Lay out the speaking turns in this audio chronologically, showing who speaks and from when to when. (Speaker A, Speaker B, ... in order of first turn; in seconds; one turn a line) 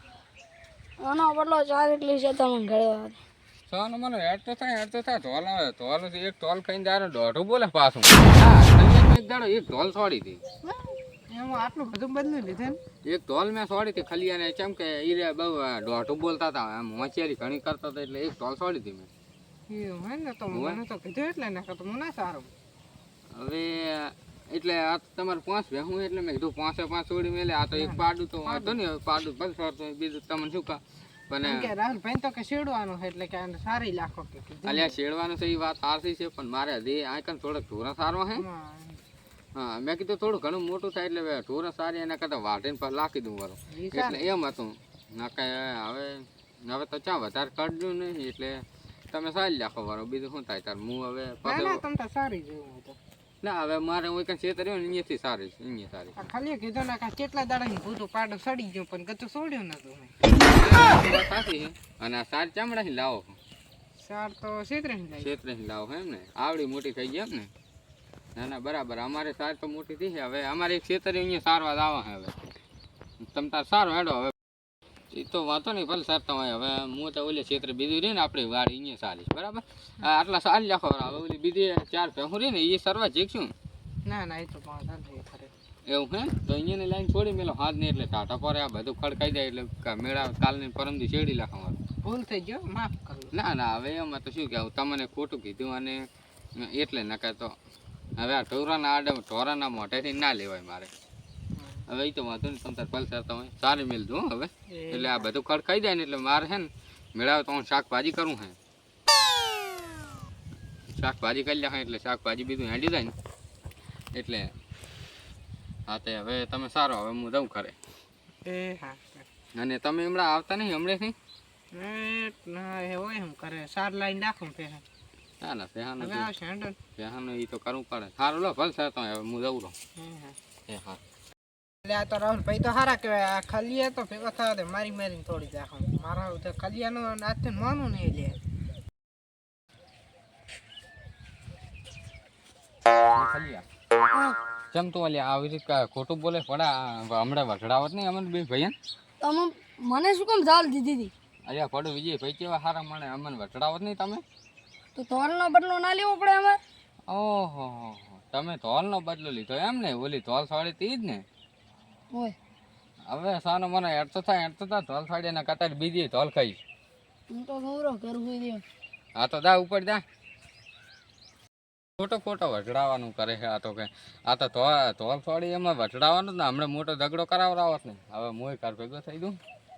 Speaker A: 1.0-3.2
Speaker B: 3.7-10.4
Speaker C: 10.6-12.8
Speaker B: 13.0-19.1
Speaker C: 19.7-22.5
Speaker B: 20.5-20.8
Speaker B: 23.3-31.7
Speaker C: 27.7-28.8
Speaker C: 31.4-35.0
Speaker B: 34.6-38.5
Speaker C: 38.3-39.0
Speaker B: 39.5-51.8
Speaker C: 43.7-44.3
Speaker C: 51.4-53.0
Speaker B: 53.4-56.2
Speaker C: 56.1-60.1
Speaker B: 60.4-63.4
Speaker C: 64.0-65.3
Speaker B: 65.2-67.5
Speaker B: 68.4-72.3
Speaker B: 73.2-74.3
Speaker B: 75.1-83.5
Speaker C: 84.1-85.5
Speaker B: 85.9-91.8
Speaker C: 92.0-93.3
Speaker B: 93.3-96.0
Speaker B: 96.6-97.5
Speaker B: 98.2-100.9
Speaker C: 101.6-101.8
Speaker B: 101.9-108.6
Speaker C: 104.7-105.3
Speaker B: 110.9-113.1
Speaker B: 114.1-114.5
Speaker B: 115.9-117.8
Speaker C: 118.5-119.2
Speaker B: 119.5-121.2
Speaker C: 121.7-124.8
Speaker B: 125.4-126.3
Speaker C: 126.0-126.8
Speaker B: 127.0-129.8
Speaker C: 130.0-130.4
Speaker B: 130.7-131.0
Speaker C: 131.8-138.4
Speaker B: 143.1-143.7
Speaker B: 144.7-148.8
Speaker A: 149.2-151.1
Speaker B: 151.5-154.2
Speaker A: 154.9-156.6
Speaker B: 157.1-161.2
Speaker A: 162.1-162.4
Speaker B: 163.1-166.6
Speaker A: 167.3-168.6
Speaker B: 169.2-170.0
Speaker B: 172.0-179.4